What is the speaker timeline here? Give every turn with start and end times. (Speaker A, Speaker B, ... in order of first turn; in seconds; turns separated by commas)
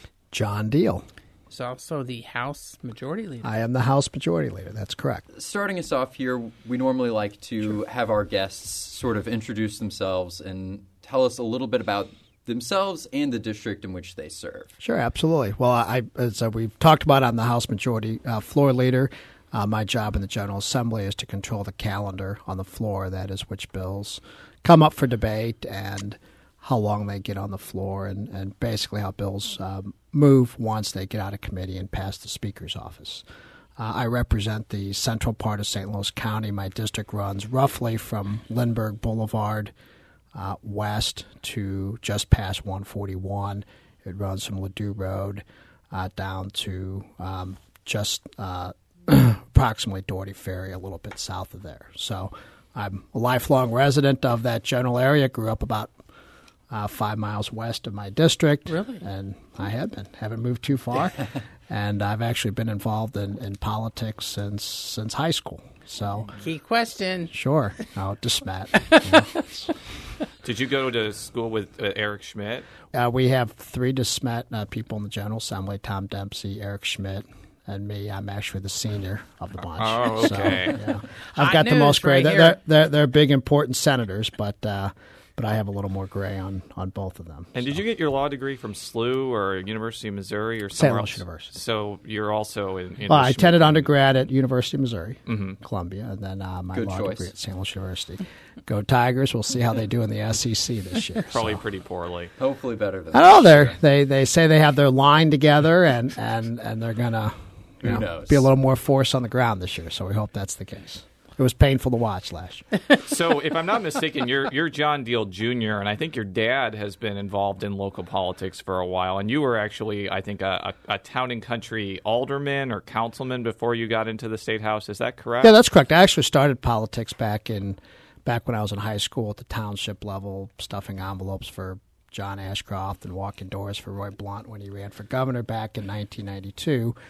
Speaker A: 0.3-1.0, Speaker B: 1.5-3.5, Speaker A: 3.4-5.2, Speaker C: 5.3-14.7, Speaker A: 14.8-33.2, Speaker A: 33.8-39.7, Speaker A: 40.3-55.9, Speaker A: 56.7-66.3, Speaker B: 58.7-59.0, Speaker B: 66.3-67.3, Speaker A: 67.3-69.9, Speaker B: 68.8-69.2, Speaker D: 70.4-72.7, Speaker A: 72.9-87.8, Speaker D: 79.8-80.9, Speaker B: 81.4-82.6, Speaker D: 87.5-93.9, Speaker A: 90.7-91.5, Speaker A: 93.1-101.6, Speaker D: 95.3-95.5, Speaker C: 96.7-97.3, Speaker D: 101.3-102.3, Speaker C: 102.4-103.8, Speaker A: 103.1-112.7, Speaker C: 107.8-108.5, Speaker D: 113.0-125.5, Speaker A: 125.4-136.9